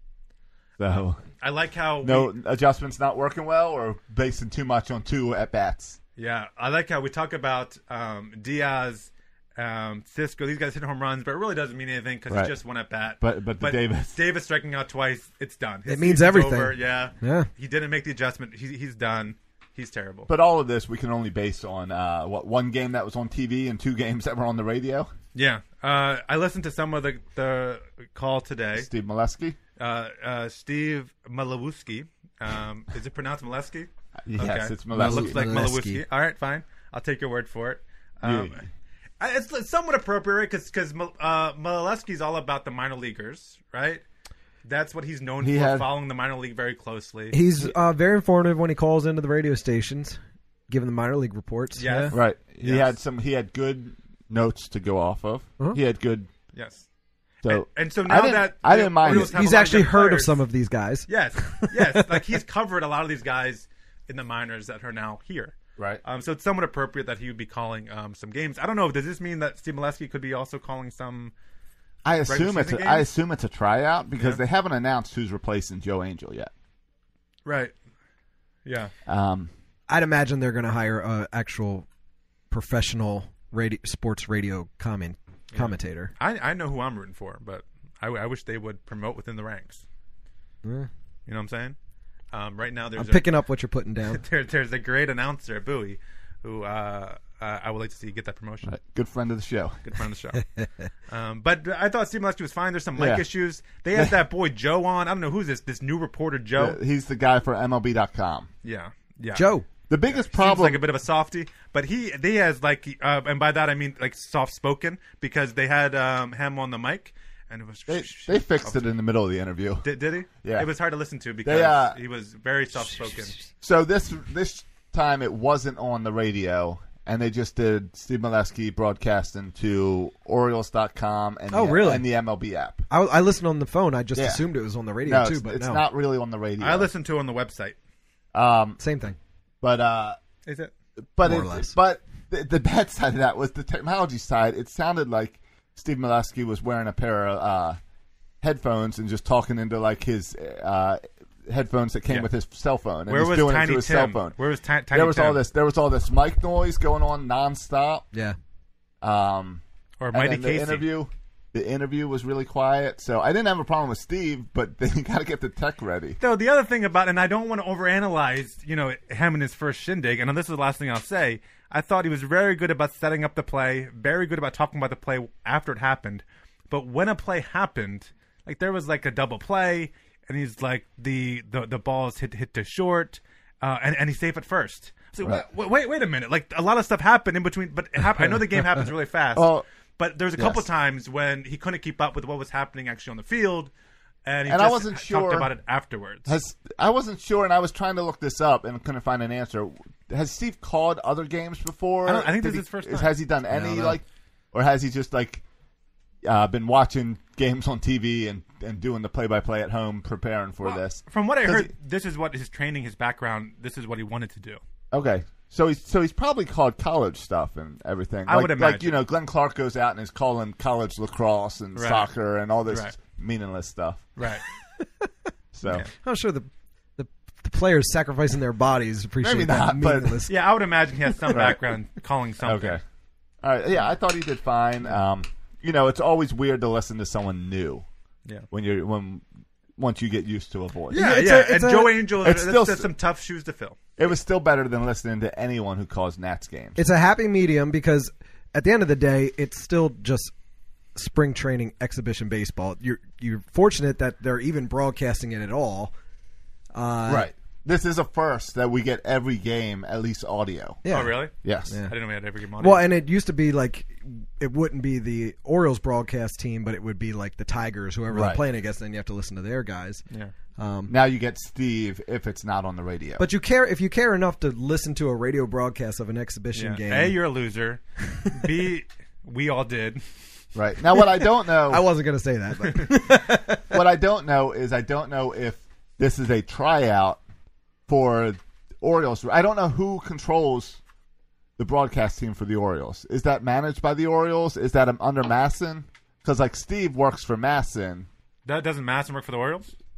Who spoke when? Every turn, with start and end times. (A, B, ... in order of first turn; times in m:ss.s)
0:00.8-0:01.2 A
0:01.4-0:02.3 B
0:02.0-0:06.0 A
0:06.2-0:20.3 B
0:13.2-0:14.2 A
0:15.9-0:17.5 C
0:20.3-0:25.1 A
0:25.3-0:28.9 B
0:28.8-0:29.6 A
0:29.8-0:38.6 B
0:34.2-0:35.6 A
0:34.9-0:36.0 C
0:38.2-0:38.6 A
0:39.2-0:44.0 B
0:44.6-0:47.4 B
0:45.4-0:45.9 A
0:47.3-0:50.2 C
0:50.7-0:52.1 C
0:51.8-0:52.9 B
0:52.1-0:56.3 A
0:56.5-0:56.8 B
0:57.4-0:59.4 A
0:57.4-1:00.4 B
0:59.0-1:02.1 C
1:01.1-1:11.3 B
1:12.0-1:16.5 A
1:12.2-1:13.1 B
1:17.4-1:17.7 B
1:18.6-1:18.9 B
1:19.1-1:19.5 A
1:19.9-1:21.8 C
1:22.5-1:26.1 C
1:25.5-1:29.8 B
1:30.6-1:30.9 C
1:31.3-1:31.8 B
1:32.3-1:33.3 B
1:33.0-1:34.2 C
1:34.1-1:38.7 B
1:38.6-1:39.8 A
1:39.8-1:40.4 B
1:41.1-1:46.8 B
1:43.0-1:43.2 A
1:46.6-1:48.5 A
1:48.6-1:49.5 B
1:49.3-1:49.7 C
1:49.9-1:50.8 A
1:50.0-1:58.9 B
1:57.9-1:59.8 A
1:59.8-2:03.4 B
2:00.4-2:00.7 A
2:01.4-2:02.0 A
2:03.6-2:12.8 A
2:11.5-2:12.0 C
2:12.9-2:15.8 C
2:14.2-2:14.4 A
2:15.0-2:16.9 A
2:16.6-2:17.8 B
2:18.3-2:18.8 A
2:18.8-2:19.2 C
2:19.6-2:20.2 A
2:20.4-2:20.7 B
2:21.2-2:27.8 A
2:21.2-2:21.7 C
2:28.4-2:34.3 A
2:33.0-2:35.4 B
2:34.9-2:38.0 A
2:39.0-2:39.6 A
2:40.0-2:40.9 B
2:40.1-2:46.2 A
2:46.2-3:13.7 B
3:09.4-3:09.6 A
3:10.4-3:10.6 A
3:14.2-3:16.3 B
3:14.5-3:15.5 A
3:16.3-3:25.4 A
3:22.0-3:23.9 B
3:26.2-3:31.7 A
3:30.6-3:34.6 B
3:34.9-3:44.1 A
3:38.3-3:39.0 B
3:41.7-3:42.1 B
3:42.7-3:43.0 B
3:44.2-3:44.4 B
3:44.8-3:45.1 C
3:45.5-3:45.8 A
3:46.0-3:50.3 C
3:49.2-3:50.2 A
3:50.3-3:52.8 B
3:51.3-3:51.6 A
3:52.4-3:52.8 A
3:53.4-3:57.8 A
3:58.5-3:59.2 A
3:59.8-4:01.0 A
4:00.9-4:03.8 B
4:00.9-4:02.0 C
4:02.2-4:02.9 A
4:04.0-4:06.8 A
4:06.8-4:10.3 C
4:10.9-4:15.9 C
4:16.7-4:17.3 C
4:17.1-4:20.8 A
4:20.8-4:21.9 C
4:20.9-4:22.8 B
4:21.4-4:21.7 A
4:22.6-4:30.0 C
4:28.1-4:28.4 A
4:30.6-4:30.9 C
4:30.9-4:33.2 A
4:33.2-4:37.2 C
4:36.5-4:40.0 B
4:40.5-4:41.9 A
4:41.7-4:43.7 C
4:43.7-4:47.2 A
4:47.9-4:50.8 A
4:51.6-4:58.1 A
4:58.4-4:59.7 B